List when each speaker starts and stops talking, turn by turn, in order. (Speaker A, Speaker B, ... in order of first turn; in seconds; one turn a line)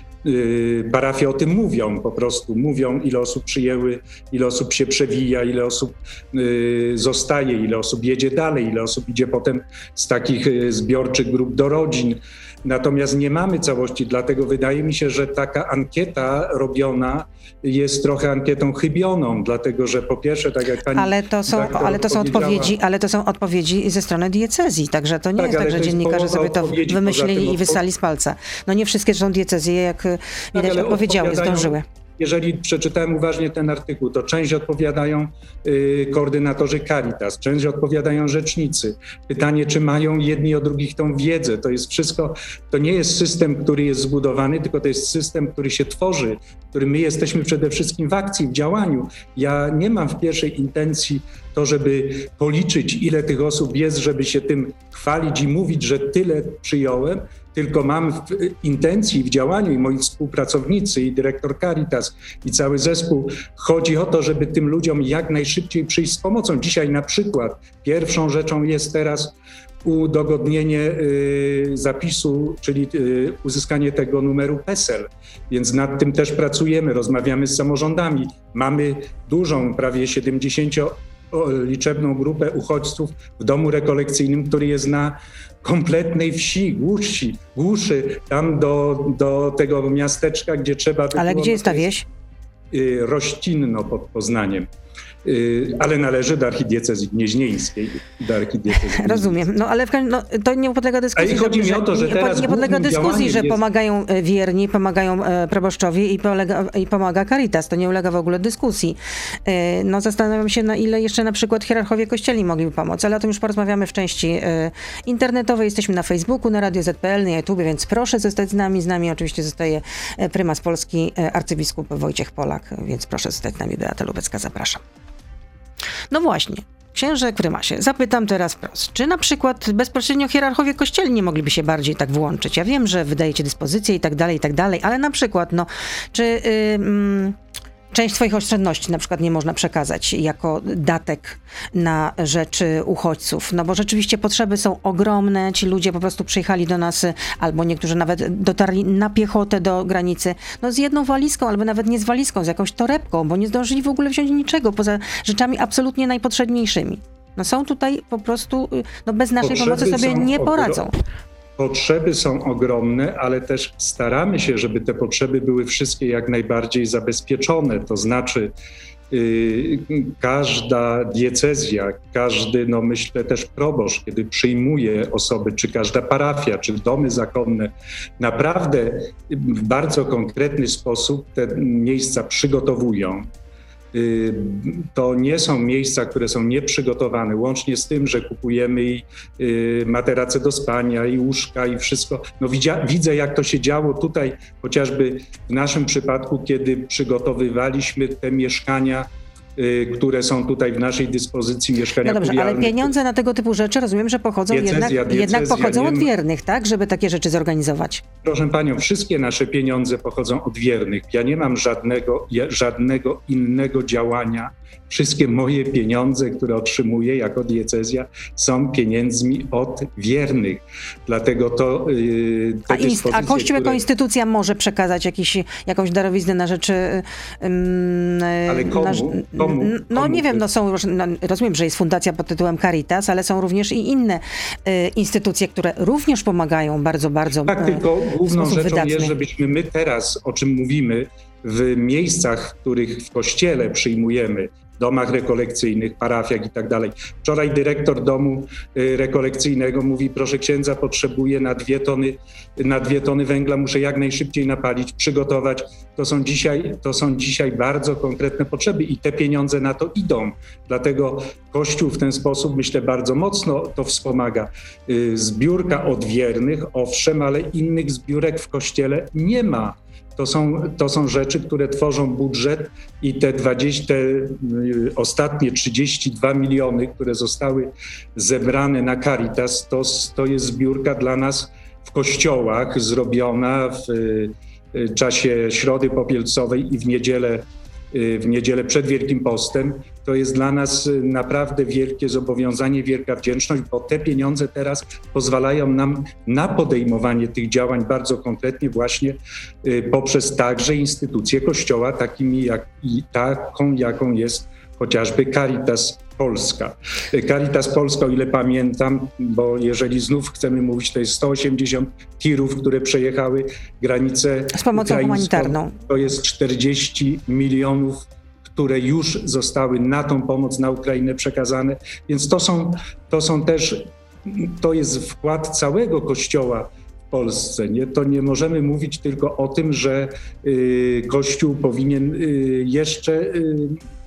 Speaker A: 0.2-22.7
Speaker B: 20.9-31.8
Speaker A: 25.4-27.8
Speaker A: 30.5-91.9
Speaker B: 91.2-92.1
Speaker A: 92.7-94.7
Speaker A: 95.2-99.4
Speaker B: 98.7-124.8
Speaker A: 101.2-103.6
Speaker B: 126.1-137.4
Speaker B: 137.9-160.9
Speaker A: 159.4-160.9
Speaker A: 161.6-168.5
Speaker A: 169.1-183.3
Speaker A: 183.9-202.9
Speaker B: 202.0-208.0
Speaker A: 204.5-206.1
Speaker A: 208.2-223.9
Speaker B: 222.7-239.1
Speaker A: 228.5-230.4
Speaker A: 237.5-333.8
Speaker B: 314.5-315.8